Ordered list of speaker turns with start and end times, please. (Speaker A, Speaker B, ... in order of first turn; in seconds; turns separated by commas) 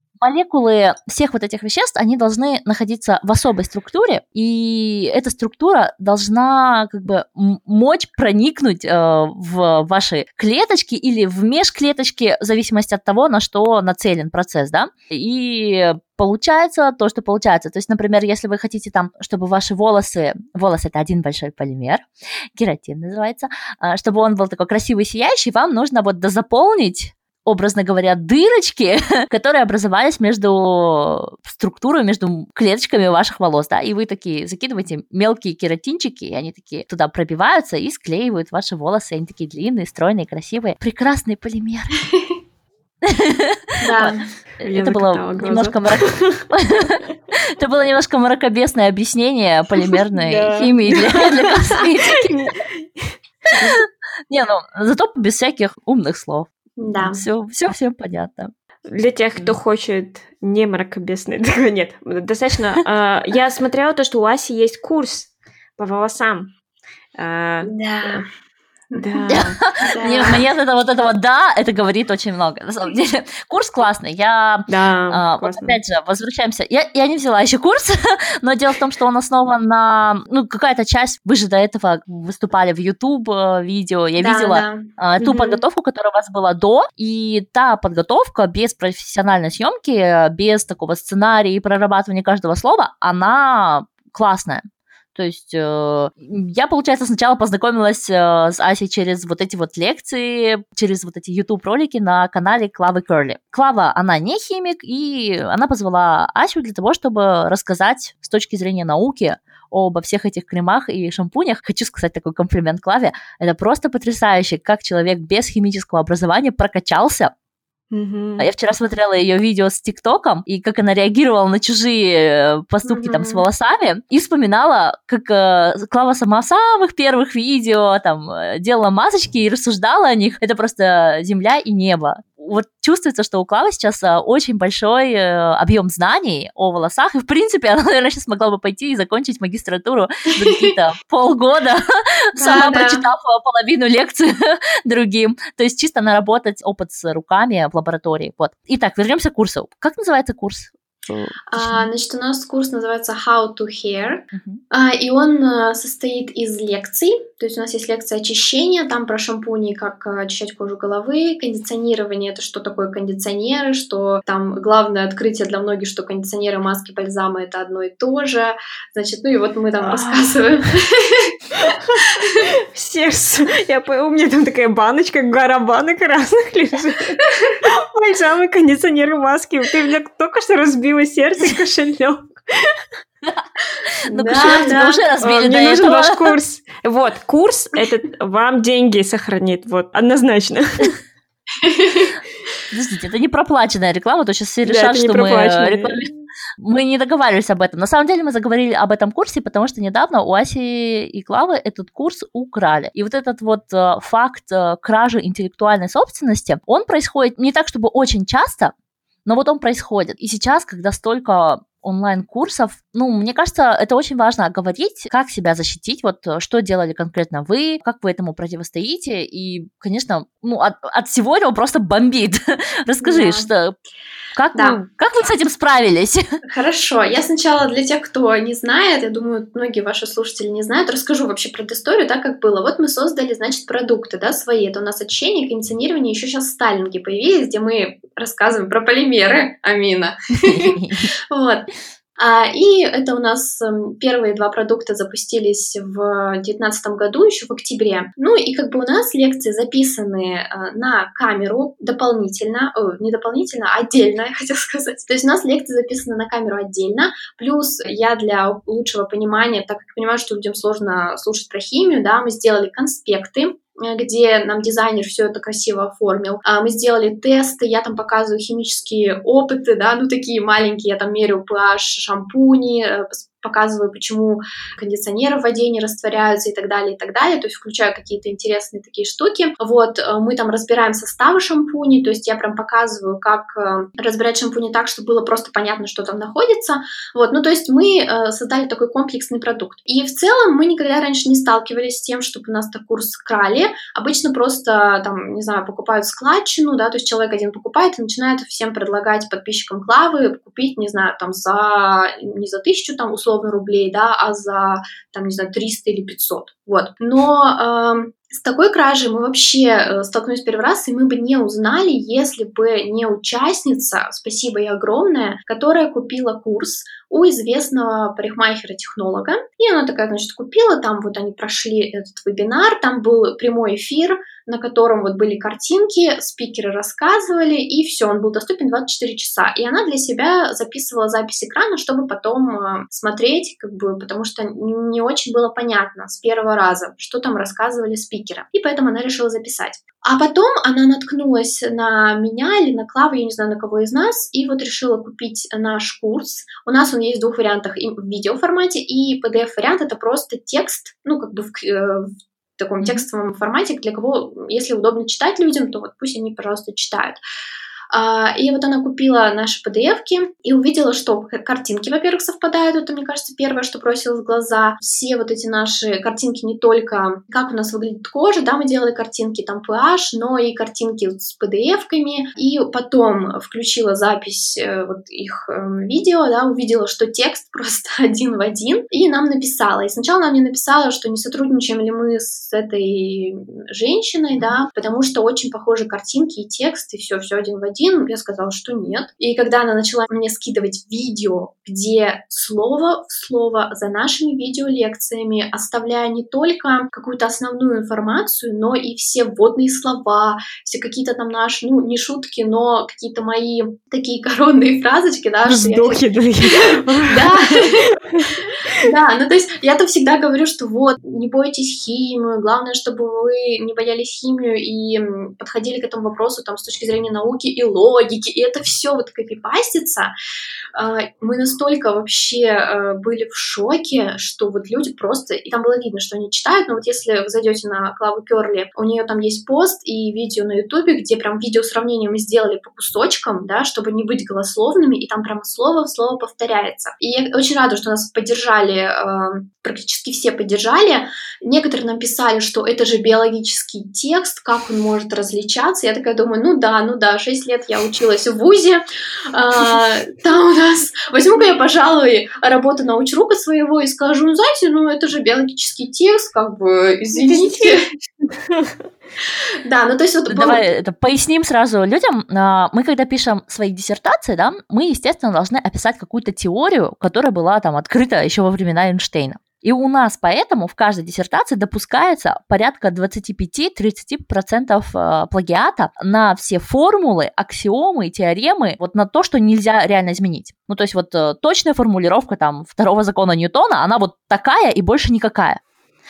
Speaker A: 0.2-42.1, Speaker A: 43.0-52.4, Speaker B: 43.8-44.3, Speaker C: 44.6-46.5, Speaker C: 49.9-53.8, Speaker A: 53.6-58.5, Speaker B: 56.8-57.2, Speaker C: 58.9-66.5, Speaker C: 67.2-67.7, Speaker B: 67.6-68.3, Speaker B: 68.9-70.4, Speaker C: 69.0-69.6, Speaker A: 69.3-117.3, Speaker C: 74.7-75.8, Speaker B: 84.2-84.9, Speaker C: 85.2-85.6, Speaker C: 117.9-118.5, Speaker A: 118.4-141.8, Speaker B: 122.8-123.4, Speaker B: 140.4-140.7, Speaker B: 142.4-143.0, Speaker A: 142.4-151.9, Speaker B: 151.5-171.3, Speaker A: 154.3-154.6, Speaker C: 169.8-170.4, Speaker C: 171.7-172.0, Speaker C: 172.7-182.8, Speaker B: 184.1-185.0, Speaker A: 184.1-186.4, Speaker C: 184.3-191.0, Speaker B: 191.6-192.1, Speaker A: 192.7-208.7, Speaker C: 194.7-196.0, Speaker A: 209.3-223.7, Speaker B: 223.0-223.5, Speaker A: 224.3-226.2, Speaker B: 226.5-240.8, Speaker A: 240.5-241.1, Speaker B: 241.3-357.2, Speaker A: 352.8-353.1, Speaker B: 357.9-407.9, Speaker C: 405.5-408.7, Speaker B: 408.7-420.1, Speaker B: 420.8-457.9, Speaker C: 457.2-457.8, Speaker C: 458.4-458.8, Speaker B: 459.6-460.6, Speaker A: 460.3-485.6